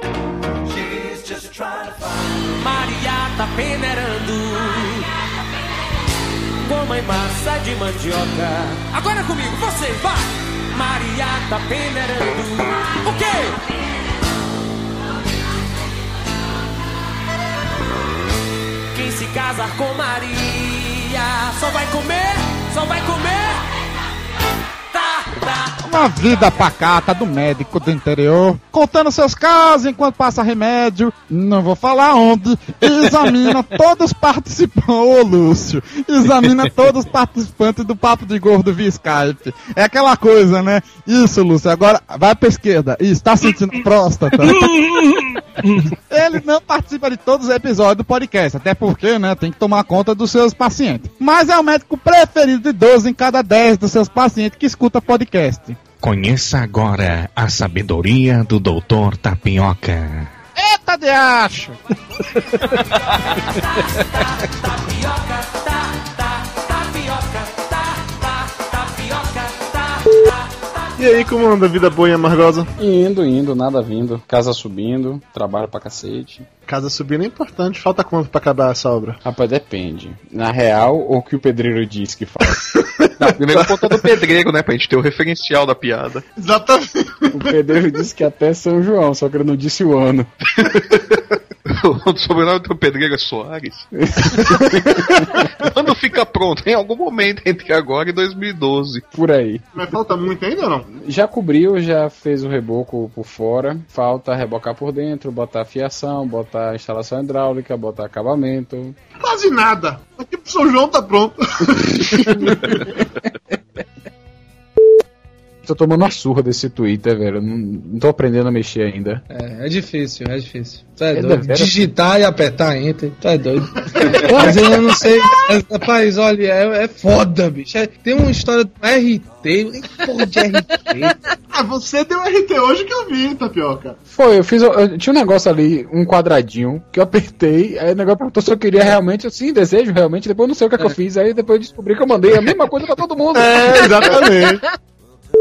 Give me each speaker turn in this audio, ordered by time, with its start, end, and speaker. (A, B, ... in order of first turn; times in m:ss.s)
0:02.4-0:05.1 A
0:06.6-0:13.6 A
0:18.9-0:23.7 A
0:24.9-0:25.8 A
0:25.8-0:44.7 B
0:46.1-0:55.8 B
0:56.0-1:00.3 C
1:00.6-1:01.8 B
1:03.0-1:10.6 A
1:11.0-1:12.7 D
1:12.8-1:16.5 E
1:16.7-1:19.2 D
1:19.2-1:22.6 E
1:23.2-1:26.2 F
1:26.4-1:27.3 D
1:27.3-1:30.3 E
1:31.7-1:33.9 F
1:34.2-1:35.0 E
1:35.6-1:39.0 F
1:39.1-1:39.6 E
1:39.8-1:40.9 D
1:41.0-1:49.0 E
1:49.2-1:52.6 D
1:55.6-1:59.2 E
1:59.3-2:03.7 G
2:01.1-2:01.8 E
2:04.2-2:11.1 G
2:11.5-2:14.0 D
2:14.1-2:24.0 E
2:23.4-2:24.6 D